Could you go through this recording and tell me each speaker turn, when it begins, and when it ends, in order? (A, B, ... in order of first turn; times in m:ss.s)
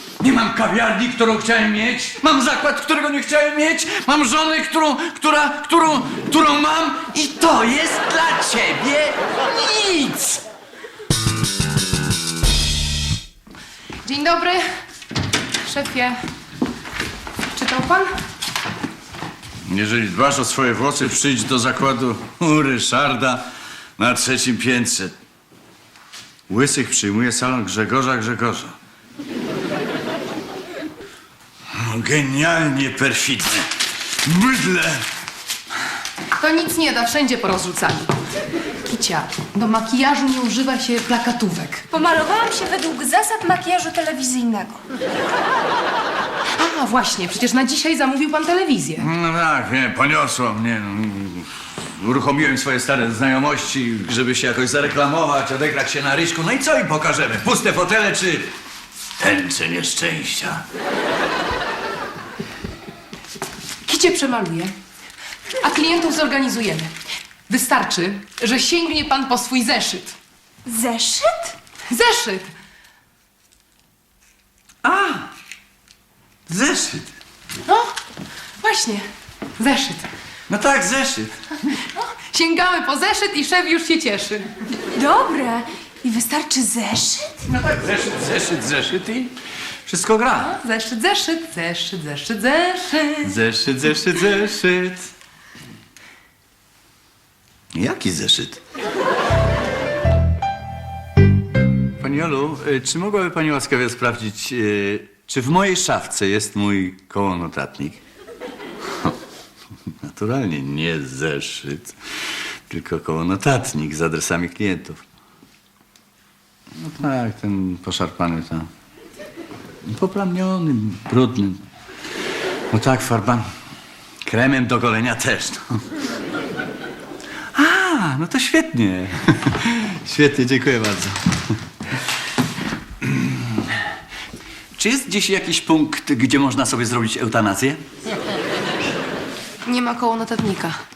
0:00.2-0:10.4 A
0:14.0-0:14.7 B
0:15.6-0:16.2 B
0:17.5-0:18.1 B
0:19.7-0:25.2 A
0:26.5-0:28.8 A
0:31.7-0:35.1 A
0:36.4-0:38.2 B
0:38.8-0:41.8 B
0:41.9-0:44.8 C
0:46.5-0:49.1 B
0:49.0-0:58.5 A
0:59.2-1:00.6 A
1:03.8-1:04.7 B
1:05.6-1:06.9 B
1:07.5-1:10.2 B
1:10.7-1:11.6 C
1:11.9-1:12.5 B
1:14.8-1:15.3 A
1:16.5-1:17.1 A
1:17.6-1:17.9 B
1:18.6-1:20.1 B
1:20.5-1:21.3 A
1:21.7-1:24.5 B
1:24.9-1:27.3 C
1:27.4-1:30.5 A
1:30.4-1:33.4 B
1:33.2-1:35.1 A
1:37.7-1:38.6 A
1:42.0-1:48.0 A
1:50.0-1:52.0 A
1:52.7-1:55.0 A
1:56.8-1:58.7 A
1:59.8-2:01.6 A
2:02.7-2:03.5 A
2:04.2-2:05.9 A
2:07.6-2:11.6 A
2:13.0-2:13.8 A
2:14.8-2:17.8 A
2:19.7-2:20.8 B